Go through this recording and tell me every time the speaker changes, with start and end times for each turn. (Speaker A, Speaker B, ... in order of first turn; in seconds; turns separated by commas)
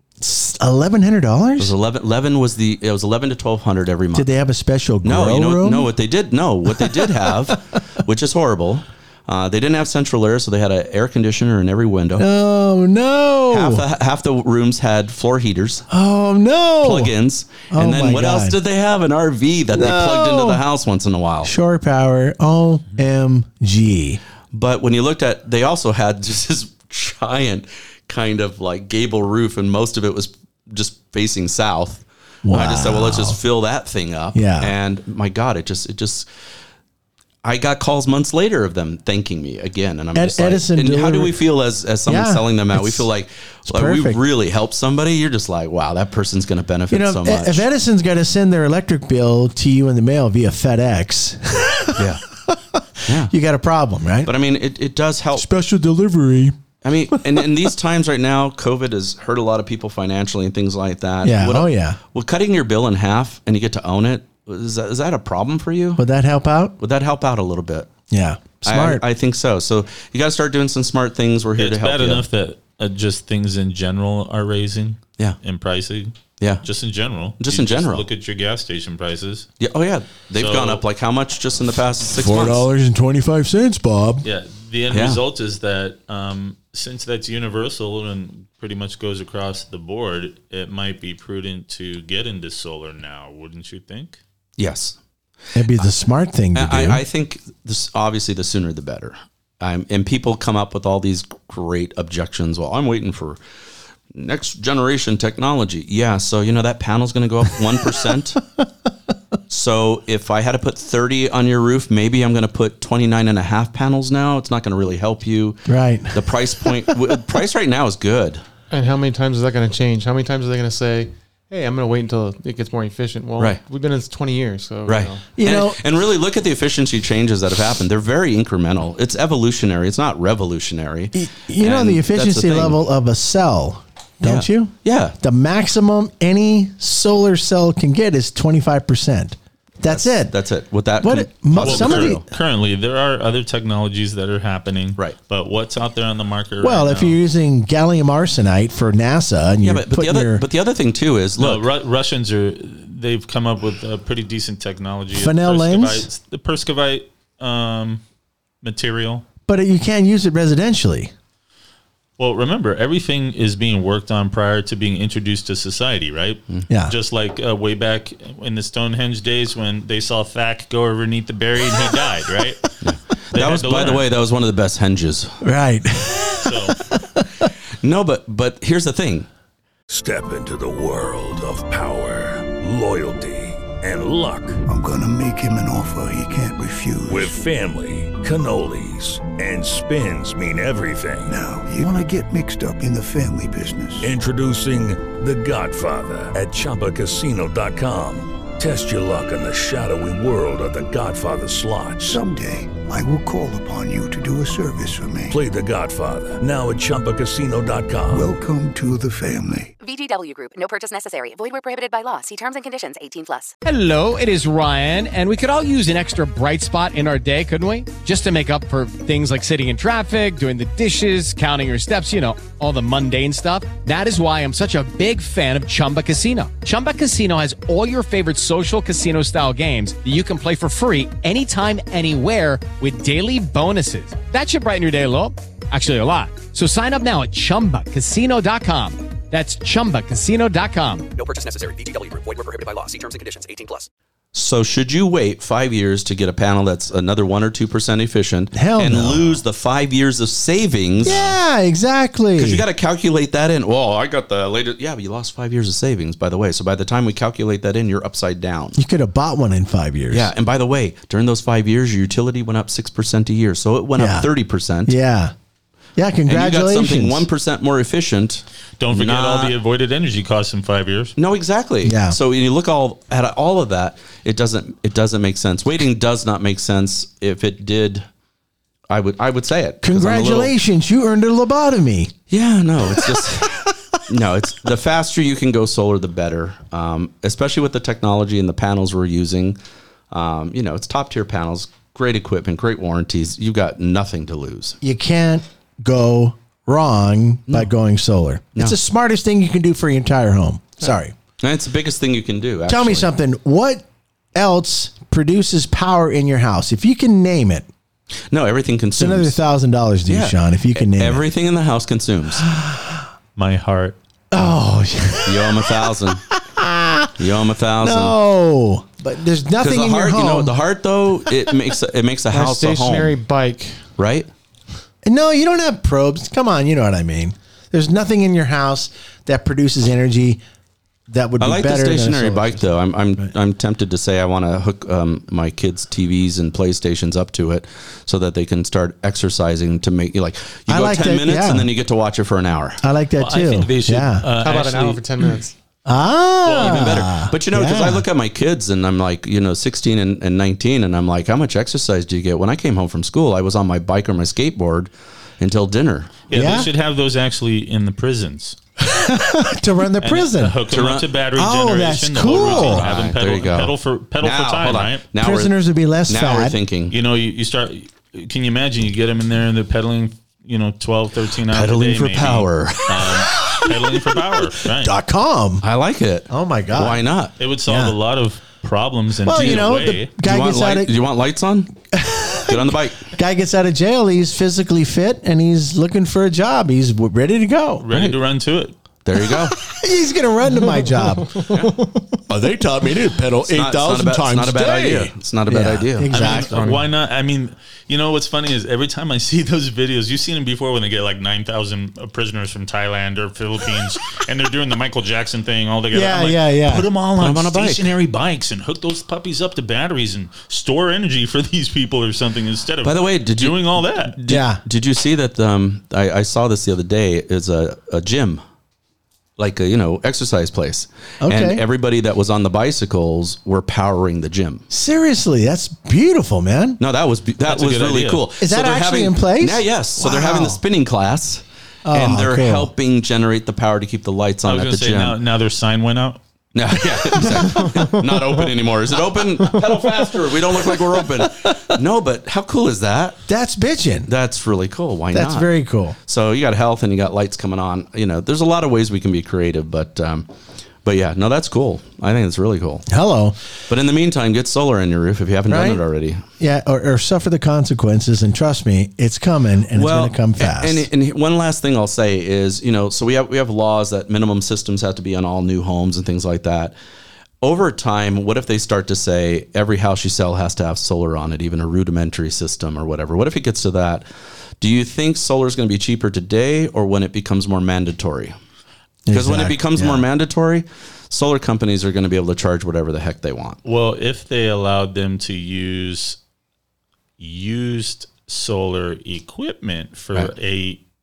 Speaker A: 0.2-1.7, Speaker B: 1.6-4.3, Speaker A: 4.1-5.9, Speaker B: 5.0-12.3, Speaker A: 6.7-7.6, Speaker A: 12.2-13.8, Speaker B: 13.5-15.8, Speaker A: 15.9-17.1, Speaker B: 16.8-21.5, Speaker A: 17.7-18.6, Speaker A: 19.7-20.6, Speaker A: 21.4-24.2, Speaker B: 24.5-36.3, Speaker A: 32.5-33.4, Speaker A: 34.3-34.7, Speaker B: 37.4-47.6, Speaker A: 40.1-41.4, Speaker A: 42.1-43.1, Speaker A: 43.7-44.2, Speaker A: 46.9-54.3, Speaker B: 52.0-52.2, Speaker B: 53.1-53.3, Speaker B: 54.2-55.5, Speaker A: 55.4-56.6, Speaker B: 56.8-66.0, Speaker A: 61.2-62.0, Speaker A: 66.0-66.8, Speaker B: 66.8-67.9, Speaker A: 68.1-69.0, Speaker B: 68.6-72.3, Speaker C: 71.6-79.5, Speaker B: 76.4-76.7, Speaker B: 77.4-78.1, Speaker B: 79.6-82.7, Speaker C: 80.4-80.8, Speaker A: 82.1-84.3, Speaker C: 84.2-94.2, Speaker B: 84.9-85.2, Speaker B: 94.6-95.0, Speaker A: 95.5-97.0, Speaker B: 96.5-103.4, Speaker B: 104.1-108.4, Speaker B: 109.5-118.4, Speaker A: 115.7-116.2, Speaker D: 118.7-125.3, Speaker B: 124.9-132.8, Speaker A: 125.4-125.8, Speaker A: 131.2-140.3, Speaker B: 134.2-135.2, Speaker B: 139.8-142.3, Speaker A: 141.0-142.2, Speaker C: 141.6-147.2, Speaker A: 146.6-150.4, Speaker B: 149.6-151.7, Speaker C: 151.4-158.0, Speaker A: 155.1-156.1, Speaker C: 158.6-159.2, Speaker A: 159.5-161.1, Speaker C: 162.2-172.8, Speaker A: 166.7-166.9, Speaker B: 172.8-175.4, Speaker C: 173.3-174.1, Speaker A: 175.4-177.3, Speaker C: 176.4-176.8, Speaker B: 177.8-179.3, Speaker E: 179.9-184.6, Speaker F: 184.7-187.4, Speaker E: 187.1-191.3, Speaker F: 191.3-194.1, Speaker E: 194.0-202.2, Speaker F: 202.0-205.4, Speaker E: 205.3-208.3, Speaker F: 208.1-209.7, Speaker G: 209.8-213.6, Speaker H: 213.7-241.1, Speaker I: 241.2-243.9, Speaker B: 244.3-251.3, Speaker A: 248.5-249.4, Speaker A: 251.0-252.6, Speaker B: 252.4-258.8, Speaker A: 258.8-260.3, Speaker B: 260.1-265.0, Speaker A: 264.0-264.3, Speaker A: 264.9-265.3, Speaker A: 266.0-267.3, Speaker B: 266.3-269.6, Speaker C: 268.8-271.1, Speaker B: 271.2-278.1, Speaker A: 271.8-272.2, Speaker B: 278.9-280.5, Speaker A: 279.8-282.1, Speaker B: 282.3-289.6, Speaker A: 282.9-283.7, Speaker B: 290.1-294.8, Speaker A: 294.8-301.1, Speaker B: 301.4-303.1, Speaker A: 302.7-307.7, Speaker B: 308.3-309.4, Speaker A: 309.0-311.2, Speaker B: 310.1-312.5, Speaker A: 312.5-313.0, Speaker C: 313.4-314.0, Speaker A: 314.3-317.1, Speaker B: 315.2-316.2, Speaker B: 317.2-318.2, Speaker A: 317.8-320.5, Speaker B: 319.6-323.2, Speaker D: 322.3-323.8, Speaker B: 324.0-324.3, Speaker A: 325.1-330.4, Speaker A: 331.1-332.7, Speaker B: 331.4-342.8, Speaker A: 340.7-341.7, Speaker A: 342.8-344.3, Speaker C: 343.2-345.1, Speaker D: 344.3-345.5, Speaker A: 345.9-348.1, Speaker B: 346.4-356.3, Speaker C: 356.3-358.6, Speaker A: 356.3-356.7, Speaker A: 358.9-360.6, Speaker C: 360.0-365.1, Speaker B: 360.7-361.1, Speaker A: 361.4-362.9, Speaker B: 362.2-365.5, Speaker A: 365.2-366.6, Speaker B: 366.1-366.9, Speaker C: 366.9-374.9, Speaker B: 371.5-373.1, Speaker A: 373.4-373.9, Speaker A: 374.7-375.6, Speaker B: 375.6-377.4, Speaker A: 376.3-377.0, Speaker C: 377.4-380.1, Speaker A: 377.7-378.0, Speaker A: 379.2-380.9, Speaker B: 380.2-381.8, Speaker A: 381.9-387.9, Speaker B: 382.5-383.1, Speaker C: 387.8-388.8, Speaker B: 389.0-389.6, Speaker A: 389.5-391.6, Speaker B: 391.5-391.8, Speaker A: 392.3-396.8, Speaker B: 393.5-396.7, Speaker C: 396.1-414.2, Speaker A: 405.9-406.9, Speaker B: 407.2-407.9, Speaker B: 412.8-418.4, Speaker A: 414.3-414.6, Speaker B: 419.4-424.6, Speaker A: 421.2-421.6, Speaker A: 424.7-426.8, Speaker B: 426.8-435.2, Speaker C: 427.5-428.2, Speaker A: 428.4-430.6, Speaker A: 431.9-432.7, Speaker C: 434.5-436.2, Speaker B: 436.6-443.2, Speaker D: 437.7-438.3, Speaker A: 443.3-444.1, Speaker B: 444.1-445.5, Speaker A: 445.1-446.0, Speaker B: 446.1-450.3, Speaker B: 450.9-452.9, Speaker A: 452.9-453.4, Speaker B: 453.7-456.2, Speaker A: 455.5-455.8, Speaker A: 456.4-460.9, Speaker B: 459.8-466.7, Speaker B: 467.4-474.1, Speaker B: 474.6-478.4, Speaker A: 479.1-480.1, Speaker B: 479.1-483.6, Speaker C: 483.6-486.2, Speaker C: 487.2-490.8